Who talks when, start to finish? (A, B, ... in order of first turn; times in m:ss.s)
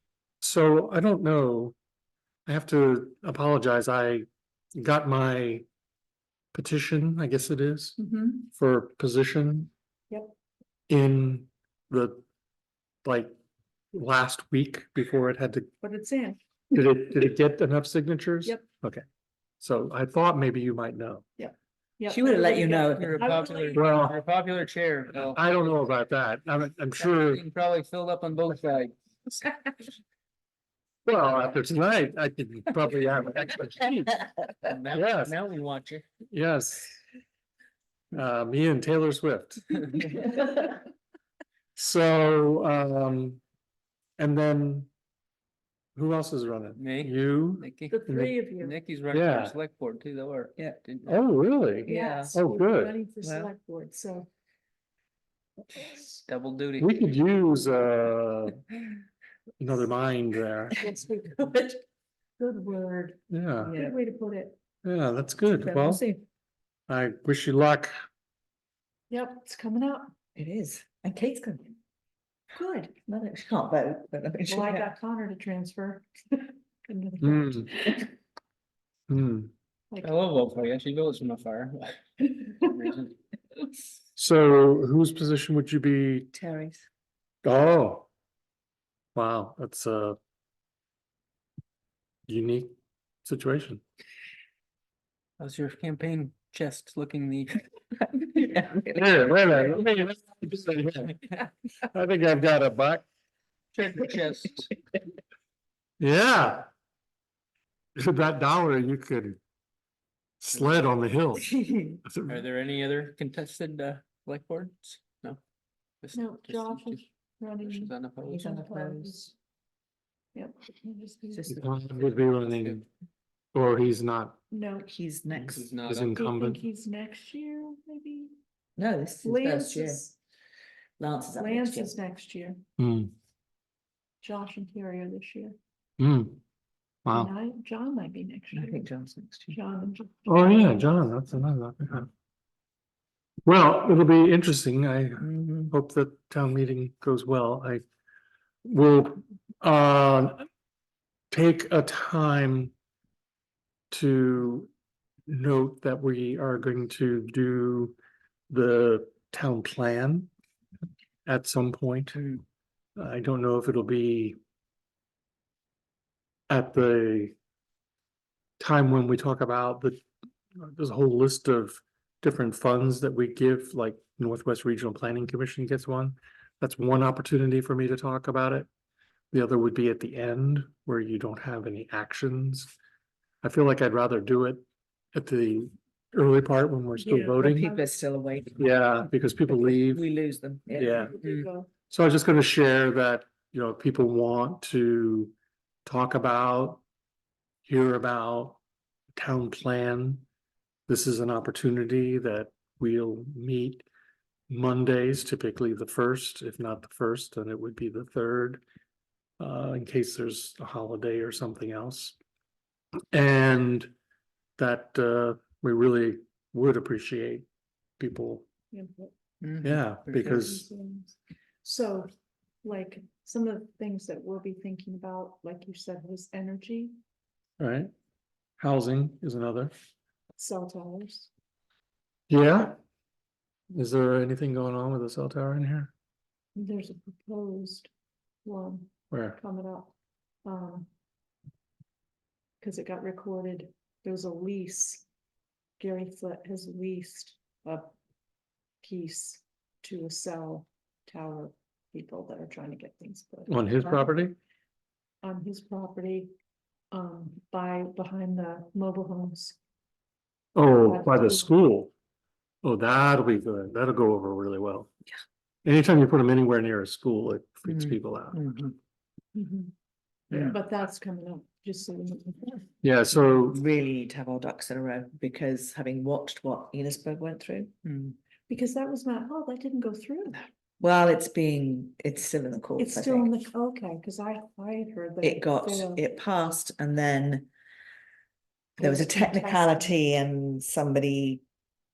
0:00.4-0:01.7 A
0:02.4-0:05.6 A
0:06.5-0:08.0 A
0:08.0-0:08.5 B
0:08.5-0:09.7 A
0:10.1-0:10.3 B
0:10.9-0:12.2 A
0:13.0-0:13.3 A
0:13.9-0:15.7 A
0:15.8-0:16.4 B
0:16.7-0:19.0 A
0:19.6-0:21.2 A
0:21.4-0:23.9 B
0:22.1-0:23.3 C
0:22.9-0:25.7 D
0:23.7-0:24.2 A
0:25.3-0:27.4 A
0:27.0-0:29.4 D
0:31.0-0:34.2 A
0:34.6-0:36.0 D
0:34.9-0:35.4 A
0:36.3-0:37.0 A
0:38.1-0:40.0 A
0:41.8-0:43.4 A
0:44.2-0:44.9 A
0:46.0-0:48.3 A
0:46.8-0:48.0 D
0:47.9-0:48.8 B
0:48.6-0:51.2 D
0:49.1-0:49.6 A
0:51.0-0:52.9 A
0:51.8-0:52.4 C
0:51.8-0:54.3 B
0:53.2-0:53.5 C
0:56.3-0:56.9 D
0:56.8-0:58.6 A
0:59.6-1:00.8 A
1:00.8-1:01.8 B
1:02.4-1:04.6 B
1:03.3-1:03.7 A
1:03.7-1:04.0 C
1:04.8-1:06.0 A
1:05.5-1:06.2 C
1:06.9-1:07.9 A
1:09.1-1:10.1 B
1:10.4-1:11.8 C
1:12.5-1:12.9 B
1:12.9-1:14.9 C
1:14.5-1:18.1 B
1:17.2-1:17.7 A
1:19.1-1:19.5 A
1:20.0-1:23.2 D
1:24.2-1:26.3 A
1:26.3-1:26.8 C
1:27.4-1:28.1 A
1:29.1-1:30.2 A
1:32.3-1:33.8 A
1:35.4-1:37.6 D
1:38.0-1:39.8 C
1:38.9-1:41.2 A
1:41.9-1:43.0 A
1:43.7-1:44.7 D
1:46.0-1:46.7 A
1:48.0-1:49.4 A
1:50.4-1:52.4 A
1:51.5-1:52.0 C
1:52.3-1:55.4 D
1:56.0-1:57.0 D
1:56.1-1:59.3 B
1:57.6-1:58.4 D
1:58.2-1:59.3 C
2:00.3-2:01.5 B
2:01.3-2:01.6 C
2:01.5-2:02.8 A
2:02.2-2:02.8 D
2:03.5-2:04.4 A
2:04.5-2:04.9 B
2:04.8-2:05.6 C
2:05.4-2:06.2 D
2:05.8-2:06.6 A
2:06.1-2:08.3 B
2:08.8-2:10.0 C
2:09.2-2:10.1 B
2:11.0-2:11.9 C
2:11.4-2:12.6 B
2:12.8-2:13.1 A
2:14.2-2:15.6 B
2:16.0-2:16.4 A
2:17.0-2:17.3 A
2:17.1-2:18.8 B
2:18.5-2:19.6 C
2:19.5-2:20.8 B
2:20.2-2:22.1 A
2:23.4-2:27.8 A
2:25.2-2:25.7 C
2:28.6-2:30.4 A
2:31.3-2:32.7 A
2:33.9-2:34.7 A
2:35.3-2:38.0 A
2:38.5-2:40.3 A
2:41.2-2:42.2 A
2:42.1-2:42.4 D
2:43.0-2:44.4 A
2:46.5-2:47.3 A
2:48.6-2:50.0 A
2:50.6-2:58.7 A
2:59.3-3:02.7 A
3:03.4-3:07.7 A
3:07.0-3:07.9 B
3:07.4-3:08.7 C
3:08.6-3:10.0 A
3:09.5-3:11.1 C
3:10.7-3:11.1 A
3:10.8-3:11.7 B
3:11.2-3:11.5 D
3:11.9-3:15.3 A
3:15.8-3:16.8 A
3:17.6-3:18.6 A
3:19.2-3:20.2 A
3:20.9-3:23.8 A
3:24.5-3:28.6 A
3:29.4-3:32.2 A
3:33.1-3:33.9 A
3:34.6-3:37.5 A
3:38.0-3:38.5 A
3:38.7-3:39.1 B
3:39.4-3:40.5 D
3:39.6-3:40.7 A
3:40.2-3:42.1 B
3:42.6-3:46.9 B
3:47.6-3:47.9 A
3:48.6-3:49.7 A
3:50.4-3:51.3 B
3:52.3-3:52.8 A
3:53.7-3:55.9 A
3:56.6-3:57.9 B
3:58.4-4:00.9 B
3:59.1-3:59.4 A
4:02.6-4:05.0 B
4:05.8-4:07.9 B
4:08.8-4:14.2 B
4:13.5-4:14.4 A
4:15.2-4:16.3 B
4:16.9-4:19.6 B
4:20.5-4:21.9 A
4:20.8-4:21.5 B
4:22.6-4:24.9 A
4:25.6-4:28.4 A
4:27.7-4:28.8 D
4:29.3-4:29.7 B
4:30.3-4:32.7 B
4:32.8-4:33.6 A
4:33.5-4:37.7 C
4:37.8-4:38.2 D
4:38.5-4:40.4 B
4:40.8-4:43.3 C
4:42.8-4:46.0 B
4:45.2-4:47.5 C
4:48.8-4:51.4 C
4:48.8-4:49.9 B